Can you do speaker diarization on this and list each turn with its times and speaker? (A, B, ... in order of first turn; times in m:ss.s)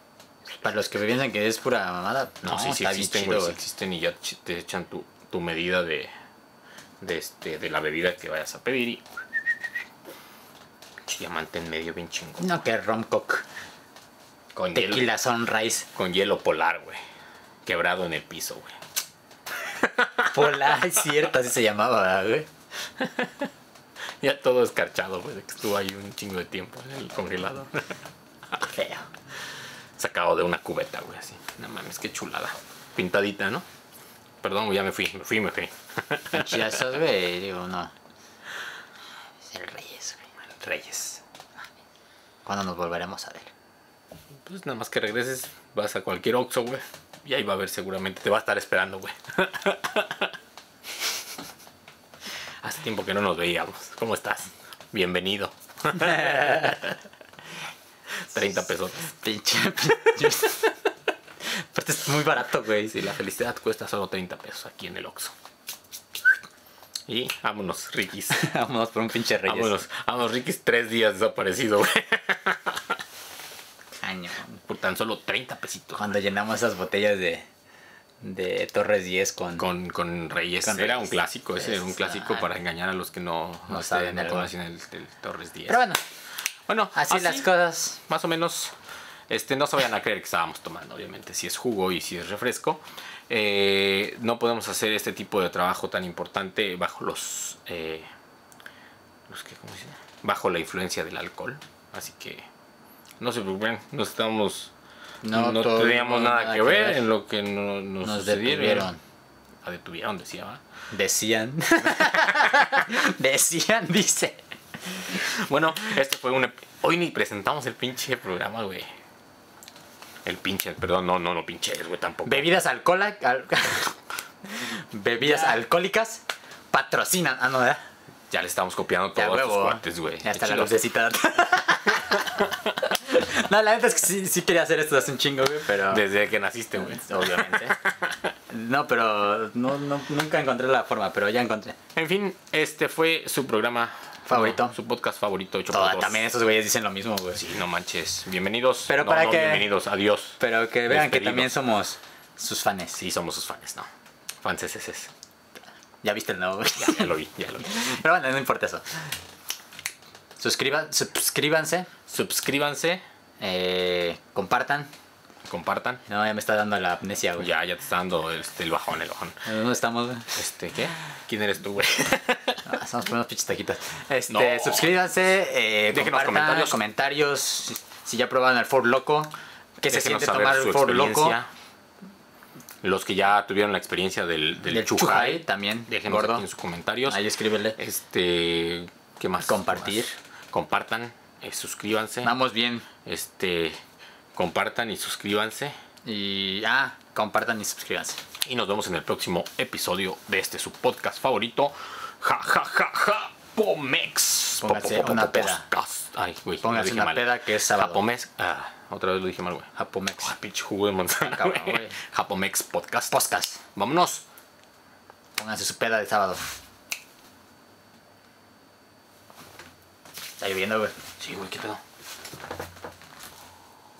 0:00.6-0:03.6 A
0:02.4-0:06.1 B
0:07.0-0:09.0 B
0:11.0-0:12.6 B
0:12.4-0:13.4 A
0:14.6-0:15.1 B
0:14.8-0:15.9 A
0:16.0-0:17.0 B
0:17.6-0:18.8 B
0:19.8-0:20.9 B
0:20.2-0:22.5 A
0:23.0-0:23.5 B
0:24.2-0:27.9 B
0:28.6-0:29.1 A
0:30.0-0:33.6 B
0:34.4-0:36.9 B
0:36.3-0:37.9 A
0:39.5-0:40.2 A
0:40.6-0:41.2 B
0:42.5-0:43.5 A
0:44.4-0:50.3 B
0:52.6-0:57.0 B
0:56.3-0:56.7 A
0:58.2-0:59.1 B
0:59.2-1:00.7 A
1:01.5-1:03.0 A
1:02.8-1:05.3 B
1:07.1-1:08.5 B
1:08.3-1:09.8 A
1:09.4-1:13.0 B
1:14.0-1:14.6 A
1:14.7-1:16.1 B
1:16.0-1:17.5 A
1:18.2-1:19.6 A
1:19.6-1:25.8 B
1:20.6-1:22.5 A
1:23.7-1:24.5 A
1:25.7-1:26.0 A
1:26.7-1:28.8 B
1:27.0-1:28.0 A
1:29.3-1:38.1 B
1:39.3-1:42.5 B
1:43.2-1:44.7 B
1:45.2-1:47.0 A
1:45.3-1:48.9 B
1:48.0-1:49.0 A
1:49.6-1:50.6 B
1:50.9-1:54.4 A
1:51.8-1:52.8 B
1:55.2-1:58.9 B
2:00.2-2:02.5 B
2:02.2-2:03.9 A
2:04.5-2:07.8 A
2:05.2-2:05.6 B
2:08.3-2:10.8 B
2:09.2-2:16.0 A
2:12.0-2:12.4 B
2:15.9-2:18.2 B
2:16.9-2:17.8 A
2:18.5-2:21.8 A
2:22.0-2:26.3 B
2:24.3-2:24.8 A
2:25.7-2:27.4 A
2:27.4-2:31.6 B
2:28.9-2:29.7 A
2:30.4-2:33.0 A
2:33.0-2:33.9 B
2:34.4-2:35.1 B
2:36.0-2:39.0 A
2:36.8-2:38.0 B
2:40.4-2:41.9 A
2:42.1-2:43.0 B
2:43.4-2:44.9 A
2:45.4-2:46.0 B
2:46.1-2:47.5 A
2:47.4-2:49.4 B
2:49.4-2:50.4 A
2:50.3-2:52.6 B
2:52.6-3:01.4 A
2:54.3-2:55.0 B
2:55.9-2:56.8 B
2:59.9-3:01.5 B
3:02.8-3:07.2 B
3:04.6-3:06.4 A
3:07.1-3:07.8 A
3:07.8-3:12.4 B
3:09.4-3:10.2 A
3:12.2-3:12.9 A
3:13.0-3:13.8 B
3:14.4-3:15.8 B
3:16.0-3:18.2 A
3:18.4-3:29.7 B
3:24.6-3:25.7 A
3:26.6-3:28.0 A
3:29.8-3:30.3 A
3:30.2-3:33.2 B
3:31.2-3:32.0 A
3:33.1-3:33.6 A
3:33.8-3:34.2 B
3:35.4-3:36.6 A
3:40.4-3:40.9 A
3:41.2-3:41.8 B